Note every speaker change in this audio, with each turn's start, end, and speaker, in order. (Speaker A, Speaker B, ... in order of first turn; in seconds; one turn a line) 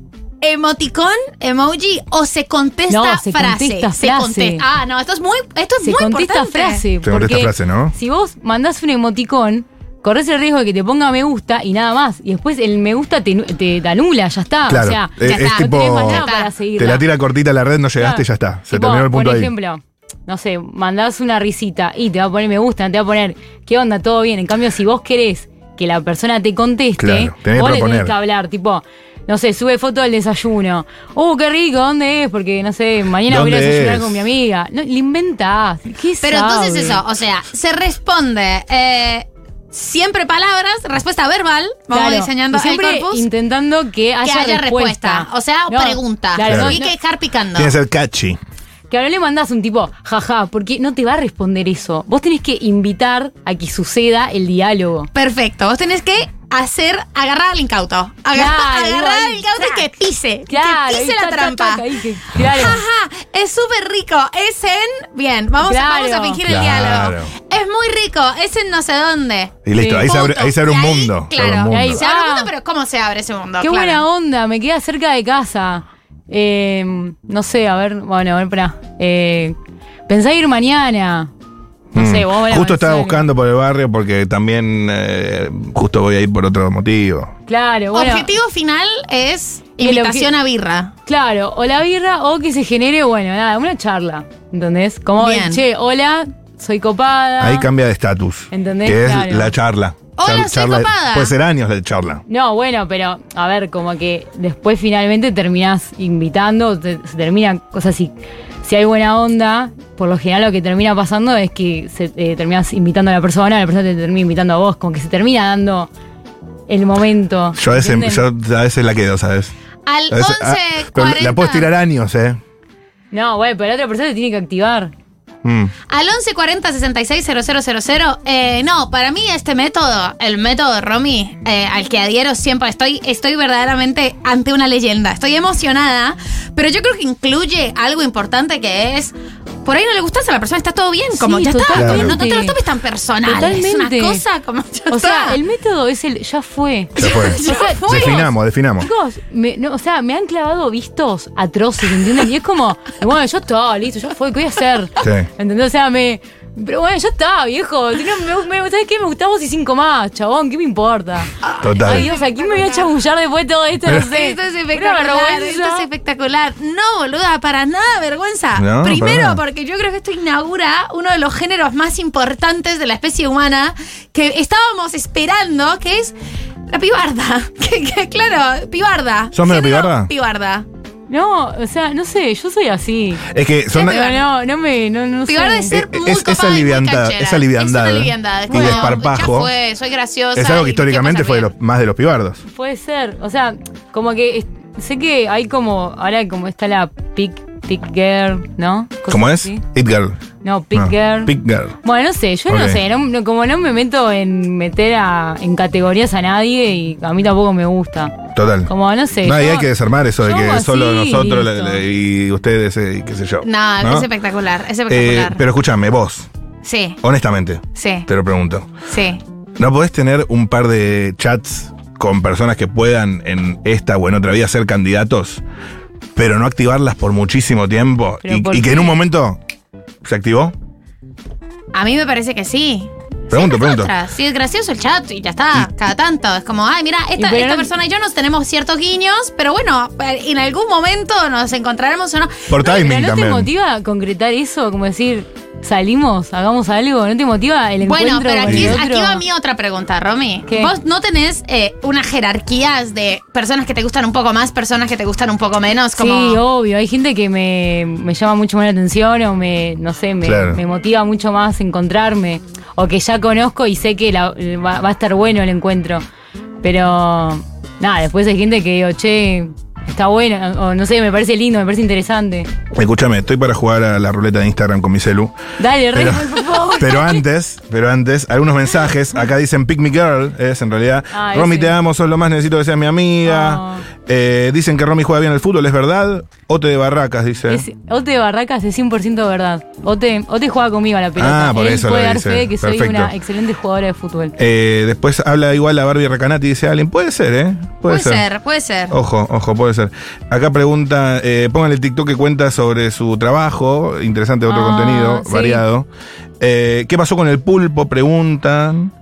Speaker A: 0.4-6.8
Speaker B: 2.9-4.6
Speaker B: 5.8-17.1
Speaker C: 7.0-7.9
Speaker C: 14.7-16.2
Speaker A: 15.2-16.5
Speaker C: 16.8-19.5
Speaker B: 18.0-37.0
Speaker C: 27.0-28.1
Speaker C: 33.2-34.2
Speaker A: 36.2-43.2
Speaker B: 41.9-46.9
Speaker A: 44.2-47.7
Speaker C: 46.5-46.8
Speaker C: 47.5-48.4
Speaker B: 48.9-55.1
Speaker A: 55.1-74.0
Speaker B: 58.3-59.8
Speaker B: 60.5-62.8
Speaker B: 65.6-66.4
Speaker C: 66.4-67.3
Speaker C: 69.6-72.0
Speaker B: 69.8-70.1
Speaker B: 71.7-72.5
Speaker B: 73.6-79.5
Speaker B: 80.1-81.3
Speaker C: 81.9-87.3
Speaker B: 81.9-83.3
Speaker B: 87.5-88.3
Speaker A: 87.9-90.9
Speaker B: 89.8-90.3
Speaker B: 91.1-97.7
Speaker A: 95.2-95.6
Speaker C: 97.4-102.2
Speaker B: 98.5-99.5
Speaker A: 100.2-101.3
Speaker B: 102.3-108.1
Speaker B: 108.6-115.9
Speaker B: 116.7-118.2
Speaker C: 117.5-119.5
Speaker A: 119.9-121.7
Speaker C: 120.1-122.4
Speaker B: 123.1-124.9
Speaker C: 125.4-125.7
Speaker A: 125.9-139.1
Speaker A: 139.6-145.4
Speaker B: 141.1-142.6
Speaker C: 141.7-142.2
Speaker B: 143.2-144.2
Speaker B: 144.9-148.2
Speaker C: 146.9-148.9
Speaker A: 147.0-148.3
Speaker B: 148.8-165.9
Speaker C: 155.0-155.3
Speaker A: 161.4-162.9
Speaker C: 161.6-162.1
Speaker A: 163.9-176.1
Speaker C: 168.6-169.4
Speaker A: 176.7-180.7
Speaker C: 179.3-180.1
Speaker B: 181.1-185.8
Speaker C: 183.3-184.0
Speaker A: 183.7-184.2
Speaker A: 185.3-191.5
Speaker C: 185.7-189.5
Speaker B: 188.5-188.9
Speaker C: 190.3-192.4
Speaker B: 192.4-199.6
Speaker C: 199.1-200.2
Speaker B: 200.4-208.2
Speaker C: 200.7-201.8
Speaker C: 202.5-202.8
Speaker C: 208.3-208.7
Speaker B: 208.7-211.8
Speaker C: 209.2-214.1
Speaker A: 213.4-215.4
Speaker C: 214.9-216.3
Speaker A: 216.6-217.0
Speaker C: 217.0-218.7
Speaker A: 217.8-218.1
Speaker A: 218.9-219.2
Speaker C: 219.6-225.4
Speaker C: 226.2-229.4
Speaker B: 228.2-229.0
Speaker C: 230.0-230.5
Speaker A: 231.7-242.5
Speaker C: 233.3-233.9
Speaker B: 237.2-237.7
Speaker C: 242.5-243.5
Speaker B: 242.6-249.2
Speaker A: 247.8-256.4
Speaker C: 248.4-248.8
Speaker B: 250.5-250.7
Speaker B: 255.9-266.0
Speaker C: 260.2-260.6
Speaker B: 266.6-272.5
Speaker C: 272.7-275.4
Speaker B: 275.6-277.2
Speaker C: 275.9-287.6
Speaker B: 281.1-281.8
Speaker B: 283.2-283.9
Speaker B: 287.5-294.3
Speaker C: 291.2-293.1
Speaker C: 294.4-298.2
Speaker A: 297.9-298.9
Speaker C: 298.9-305.9
Speaker B: 304.4-305.6
Speaker C: 306.4-308.9